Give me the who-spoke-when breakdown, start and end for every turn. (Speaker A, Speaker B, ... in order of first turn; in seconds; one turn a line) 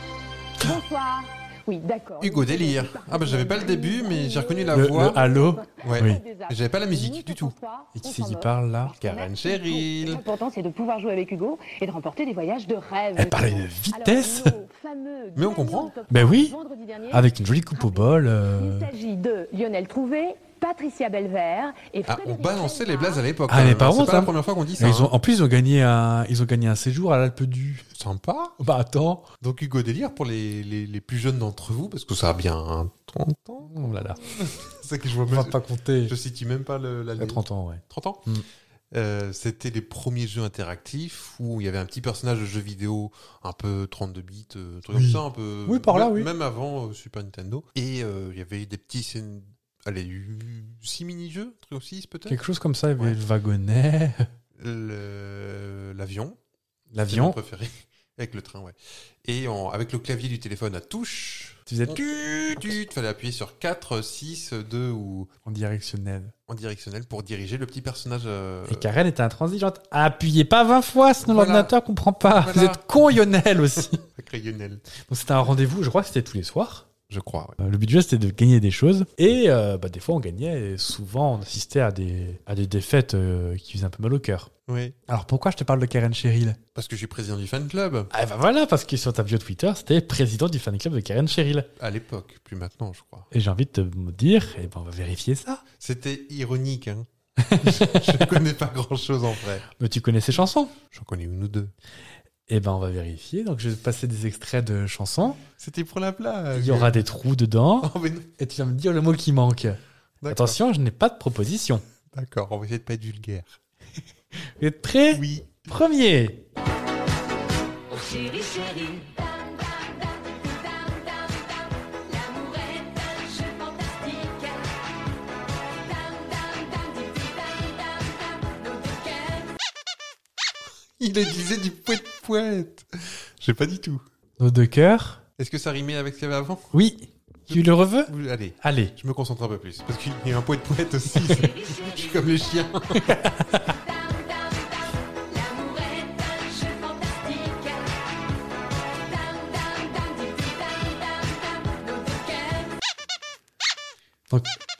Speaker A: 0.6-23.2
Speaker B: 2.2-5.3
Speaker C: 4.7-6.2
Speaker B: 5.8-7.6
Speaker C: 7.9-8.9
Speaker B: 8.9-10.2
Speaker C: 13.1-14.6
Speaker B: 15.3-16.0
Speaker C: 16.1-16.6
Speaker C: 17.1-18.9
Speaker B: 22.0-25.1
Speaker C: 23.5-27.9
Speaker B: 27.9-28.6
Speaker C: 28.6-29.3
Speaker B: 29.4-38.2
Speaker C: 33.6-34.2
Speaker C: 35.3-36.1
Speaker C: 37.2-38.4
Speaker B: 38.9-52.4
Speaker C: 44.9-46.3
Speaker C: 52.3-54.3
Speaker B: 54.5-56.4
Speaker C: 56.9-57.4
Speaker B: 57.0-62.0
Speaker C: 61.7-62.8
Speaker B: 62.5-65.3
Speaker C: 65.4-66.3
Speaker B: 66.5-68.9
Speaker C: 68.7-74.0
Speaker B: 71.2-71.7
Speaker B: 72.3-72.8
Speaker B: 74.0-74.8
Speaker C: 75.1-76.9
Speaker B: 77.1-77.6
Speaker C: 77.6-84.5
Speaker B: 84.7-85.0
Speaker C: 85.1-86.6
Speaker B: 86.7-88.1
Speaker C: 88.1-91.7
Speaker B: 91.8-93.3
Speaker C: 93.3-95.6
Speaker B: 95.8-99.7
Speaker C: 97.4-98.2
Speaker C: 99.8-100.7
Speaker B: 100.9-101.7
Speaker C: 102.5-105.4
Speaker B: 105.6-107.0
Speaker C: 106.5-111.8
Speaker B: 107.8-108.3
Speaker B: 110.2-110.6
Speaker B: 112.1-113.6
Speaker C: 114.5-116.4
Speaker B: 115.1-115.7
Speaker D: 117.9-124.7
Speaker D: 125.7-129.5
Speaker B: 131.0-134.0
Speaker C: 134.4-135.2
Speaker B: 135.4-136.7
Speaker C: 136.7-138.9
Speaker B: 137.5-143.2
Speaker D: 141.2-142.5
Speaker C: 143.0-143.7
Speaker D: 143.6-148.0
Speaker D: 148.9-152.8
Speaker C: 154.3-154.6